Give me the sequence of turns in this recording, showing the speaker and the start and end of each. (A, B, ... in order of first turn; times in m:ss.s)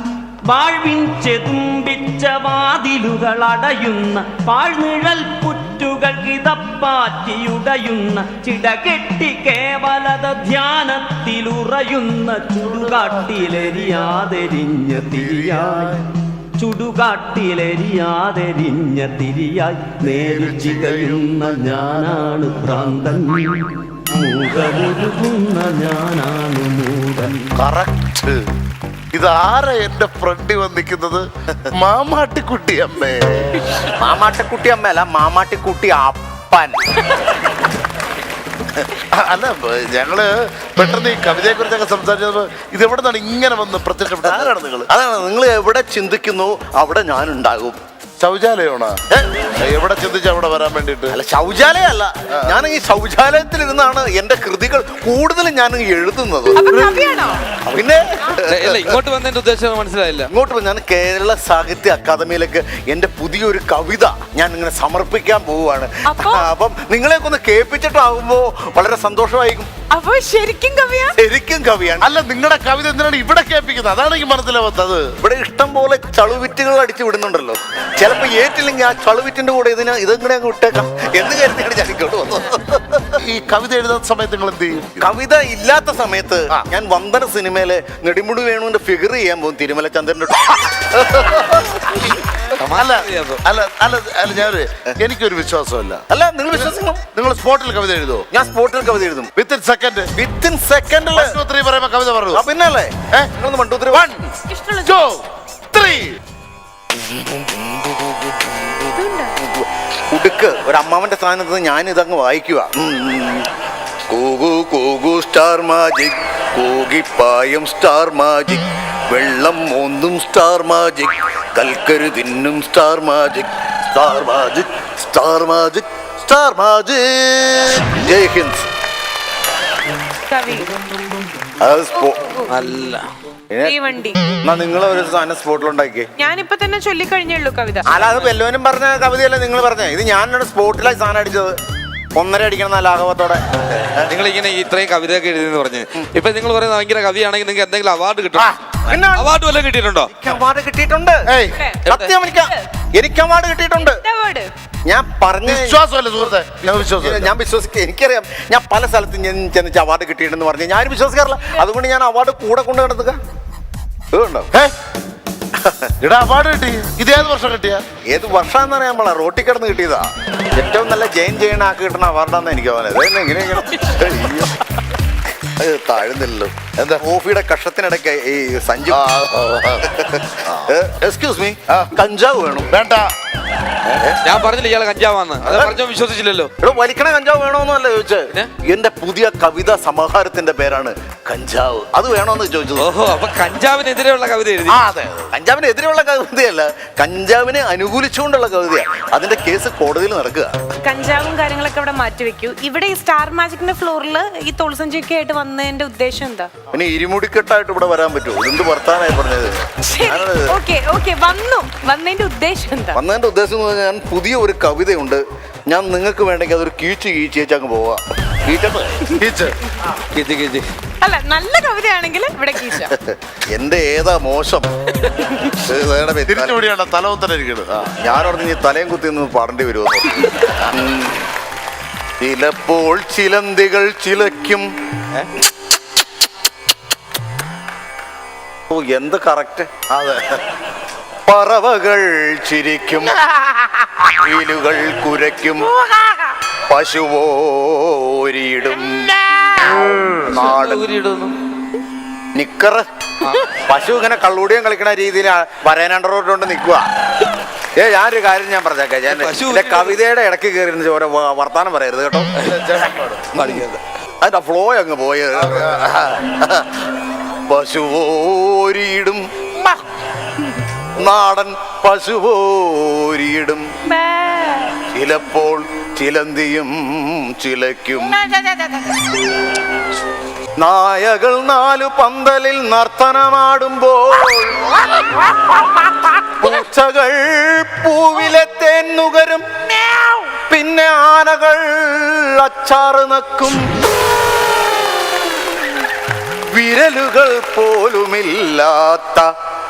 0:00.4-0:16.1 A
0:12.9-0:13.6 B
0:15.0-0:16.0 B
0:16.6-0:27.5 A
0:20.1-0:22.2 B
0:27.6-0:28.1 C
0:28.0-0:28.3 B
0:29.1-0:33.6 B
0:34.0-0:37.0 C
0:39.1-0:44.6 B
0:44.2-0:47.8 C
0:48.2-0:49.0 B
0:49.1-0:49.4 C
0:49.6-0:51.2 B
0:51.1-0:56.8 C
0:56.5-0:57.4 D
0:57.6-0:59.0 C
0:58.4-1:00.3 E
1:00.3-1:09.7 C
1:06.1-1:06.5 D
1:09.9-1:11.2 D
1:11.2-1:12.1 C
1:12.0-1:15.1 B
1:15.2-1:23.2 C
1:23.2-1:25.1 B
1:25.0-1:32.1 C
1:32.6-1:33.4 E
1:32.7-1:38.2 B
1:36.1-1:37.0 C
1:38.3-1:39.3 C
1:39.4-1:40.1 B
1:40.1-1:41.4 C
1:41.1-1:42.4 B
1:42.3-1:44.1 C
1:43.9-1:46.2 B
1:44.5-1:45.0 D
1:47.1-1:48.9 B
1:49.0-1:49.3 D
1:49.4-1:53.5 C
1:54.1-2:08.7 C
2:10.3-2:10.7 D
2:11.6-2:12.3 C
2:12.5-2:13.0 E
2:13.7-2:14.2 D
2:14.4-2:16.1 C
2:16.2-2:17.8 D
2:17.8-2:21.6 C
2:18.0-2:18.3 E
2:22.1-2:24.1 C
2:24.0-2:30.1 E
2:28.7-2:29.3 C
2:30.1-2:31.3 C
2:31.3-2:31.6 B
2:31.8-2:32.2 E
2:31.8-2:34.0 C
2:34.1-2:34.5 D
2:34.8-2:35.8 C
2:35.5-2:37.3 B
2:36.6-2:43.2 C
2:44.1-2:44.5 C
2:45.6-2:45.9 C
2:46.0-2:47.8 B
2:48.1-2:54.6 C
2:55.4-2:59.1 C
2:56.7-2:57.0 B
2:58.9-2:59.9 B
2:59.9-3:02.7 C
3:02.7-3:03.1 B
3:03.8-3:04.2 C
3:04.2-3:06.5 E
3:05.4-3:05.8 C
3:06.6-3:12.9 C
3:12.8-3:14.8 E
3:14.7-3:15.3 B
3:15.3-3:20.5 C
3:20.8-3:26.5 D
3:26.7-3:30.6 C
3:29.8-3:33.0 D
3:32.9-3:39.1 C
3:39.2-3:39.6 B
3:40.1-3:40.6 E
3:41.0-3:42.9 D
3:42.9-3:44.7 C
3:45.6-3:46.6 C
3:46.3-3:47.9 B
3:48.0-3:51.2 C
3:52.2-3:54.6 C
3:58.7-3:59.8 C
3:59.9-4:00.4 B
4:01.3-4:03.2 C
4:03.9-4:05.7 C
4:06.7-4:09.2 C
4:09.9-4:11.3 E
4:10.2-4:10.8 C
4:12.3-4:12.8 C
4:13.2-4:13.5 E
4:13.6-4:16.9 C
4:17.8-4:22.4 C
4:19.1-4:20.0 E
4:22.4-4:23.3 B
4:23.3-4:23.7 C
4:23.3-4:23.8 E
4:24.2-4:29.2 C
4:25.5-4:26.1 B
4:31.0-4:33.6 C
4:33.9-4:34.8 D
4:34.9-4:38.2 C
4:40.6-4:44.8 C
4:46.2-4:49.4 C
4:50.5-4:53.6 C
4:56.5-4:59.3 C